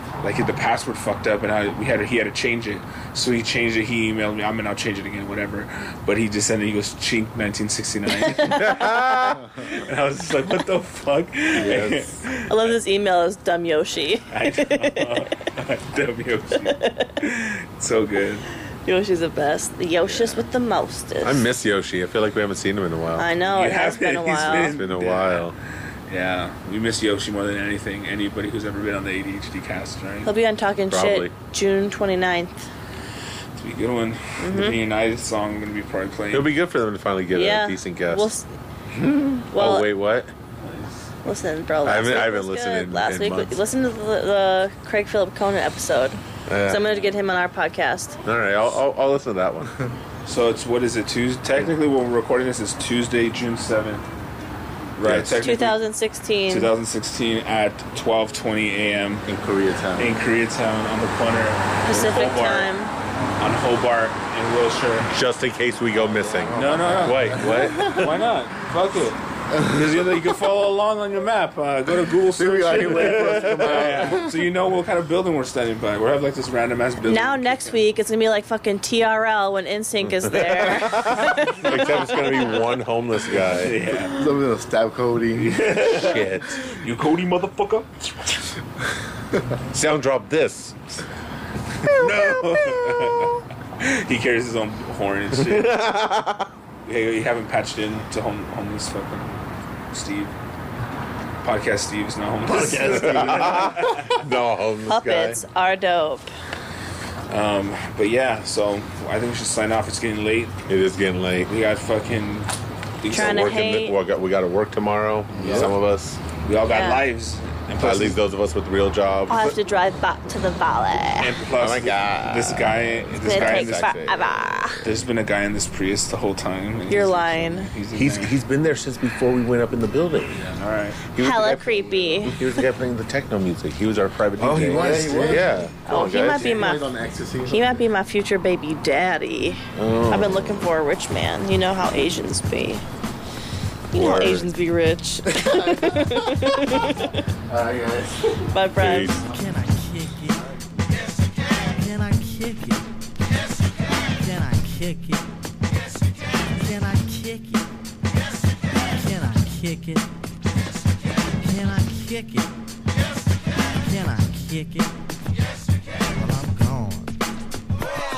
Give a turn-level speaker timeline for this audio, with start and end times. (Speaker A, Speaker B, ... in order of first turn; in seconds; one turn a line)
Speaker A: 0.2-9.0
Speaker B: 8.2-9.3
Speaker C: 8.4-9.4
Speaker A: 9.6-12.7
Speaker C: 11.6-12.2
Speaker D: 11.6-11.9
Speaker B: 12.5-15.3
Speaker A: 14.3-18.4
Speaker B: 16.6-17.1
Speaker B: 18.9-21.4
Speaker A: 20.0-20.4
Speaker C: 21.2-23.3
Speaker B: 23.1-24.7
Speaker A: 23.5-25.5
Speaker C: 24.5-25.5
Speaker A: 26.1-30.3
Speaker B: 30.2-32.7
Speaker C: 30.9-31.3
Speaker A: 33.5-36.5
Speaker B: 34.4-34.8
Speaker C: 36.3-38.3
Speaker B: 37.3-38.5
Speaker B: 39.4-39.9
Speaker C: 39.5-40.3
Speaker A: 40.6-41.1
Speaker B: 41.2-48.2
Speaker C: 41.8-43.6
Speaker C: 46.5-46.9
Speaker A: 46.8-47.2
Speaker C: 48.2-49.7
Speaker A: 50.2-54.0
Speaker A: 55.0-55.8
Speaker C: 55.0-55.4
Speaker B: 55.4-56.7
Speaker A: 56.5-59.2
Speaker D: 59.2-60.1
Speaker A: 60.0-62.7
Speaker B: 61.8-62.9
Speaker A: 63.4-65.1
Speaker C: 65.1-68.1
Speaker D: 66.0-68.0
Speaker A: 66.5-77.8
Speaker D: 72.3-74.3
Speaker B: 77.0-81.6
Speaker C: 80.0-83.9
Speaker A: 81.2-82.7
Speaker A: 83.3-84.3
Speaker D: 84.0-85.7
Speaker A: 85.3-88.4
Speaker C: 85.9-86.6
Speaker C: 89.7-90.8
Speaker A: 91.9-95.8
Speaker C: 95.3-96.5
Speaker A: 96.8-100.3
Speaker A: 101.4-104.2
Speaker D: 102.5-104.0
Speaker C: 102.5-105.4
Speaker B: 104.9-106.3
Speaker A: 107.3-110.6
Speaker C: 110.7-111.5
Speaker A: 111.5-112.5
Speaker A: 113.0-113.6
Speaker B: 113.1-113.9
Speaker C: 113.1-116.2
Speaker D: 115.3-115.7
Speaker A: 115.4-115.8
Speaker A: 116.4-118.2
Speaker B: 116.7-117.0
Speaker C: 117.8-119.5
Speaker B: 119.3-121.3
Speaker A: 121.2-123.9
Speaker C: 121.6-124.3
Speaker B: 123.2-124.8
Speaker A: 124.8-128.4
Speaker B: 126.9-127.7
Speaker C: 127.9-130.5
Speaker A: 130.4-131.0
Speaker C: 131.1-136.7
Speaker B: 131.2-132.6
Speaker A: 134.4-135.5
Speaker D: 134.4-137.8
Speaker B: 135.8-136.9
Speaker B: 137.4-142.8
Speaker C: 139.7-140.7
Speaker B: 143.9-147.2
Speaker C: 143.9-144.5
Speaker D: 145.3-146.4
Speaker D: 147.5-148.4
Speaker B: 148.5-149.2
Speaker C: 148.8-149.3
Speaker E: 149.1-150.4
Speaker E: 151.7-152.8
Speaker E: 154.0-155.3
Speaker E: 156.3-157.7
Speaker E: 158.8-160.1
Speaker E: 161.4-162.5
Speaker E: 163.6-164.9
Speaker E: 166.0-167.2